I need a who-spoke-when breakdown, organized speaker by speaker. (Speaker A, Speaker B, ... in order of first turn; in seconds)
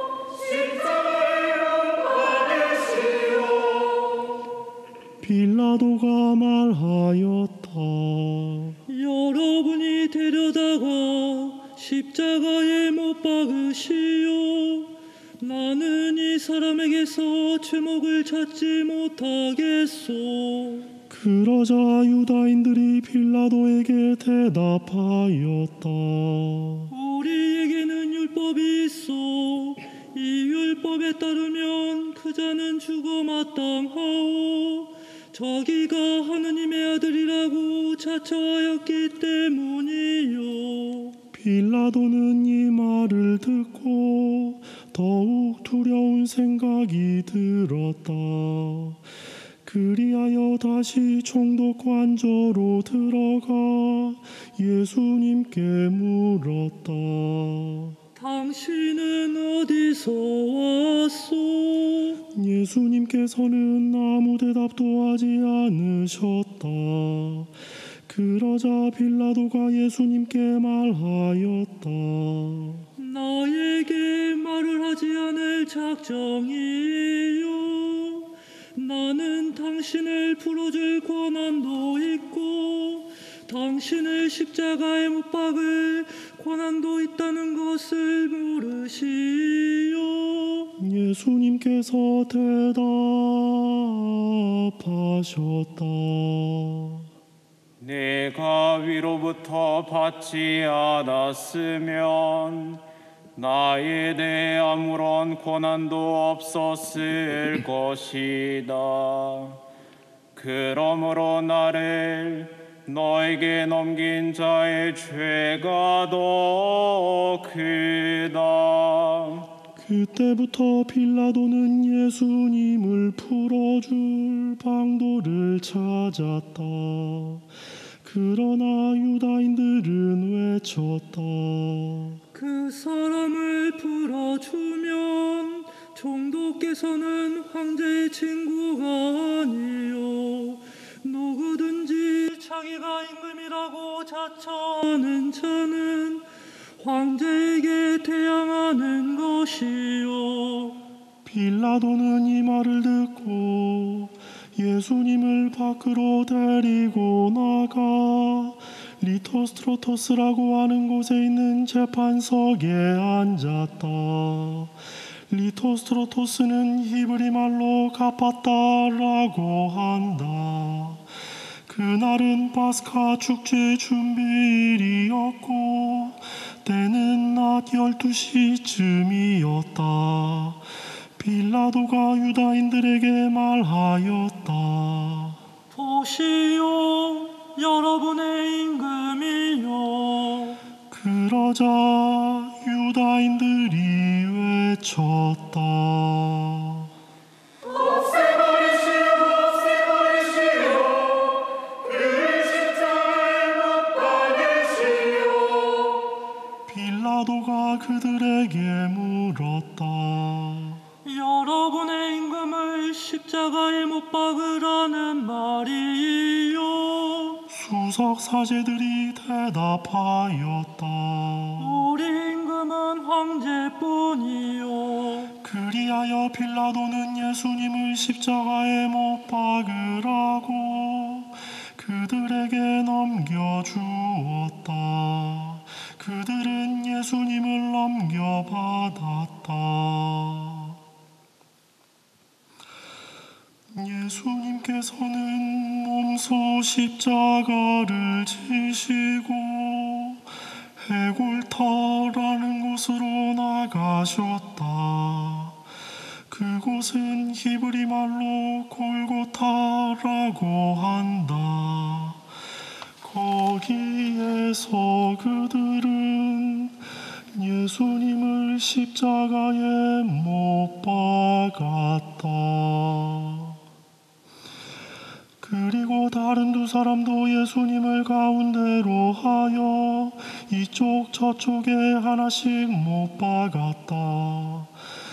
Speaker A: 5.2-8.8, 21.1-26.9, 41.3-49.0, 49.6-58.0, 62.3-67.5, 68.1-72.9, 90.8-97.1, 119.8-127.5, 128.0-132.2, 151.2-164.8, 165.3-171.1, 171.7-180.6, 181.2-185.4, 190.9-196.9, 206.7-210.8, 217.5-221.9, 225.4-240.8, 243.7-255.6, 256.3-262.2, 263.0-273.6, 275.4-284.8
Speaker B: 8.9-20.9, 26.9-41.2, 58.1-62.2, 73.0-90.7, 132.3-146.3, 146.8-150.8, 185.7-190.6, 211.1-217.4, 221.6-225.3
Speaker C: 97.8-102.8, 103.4-109.6, 110.3-119.5, 198.2-201.3, 201.8-205.9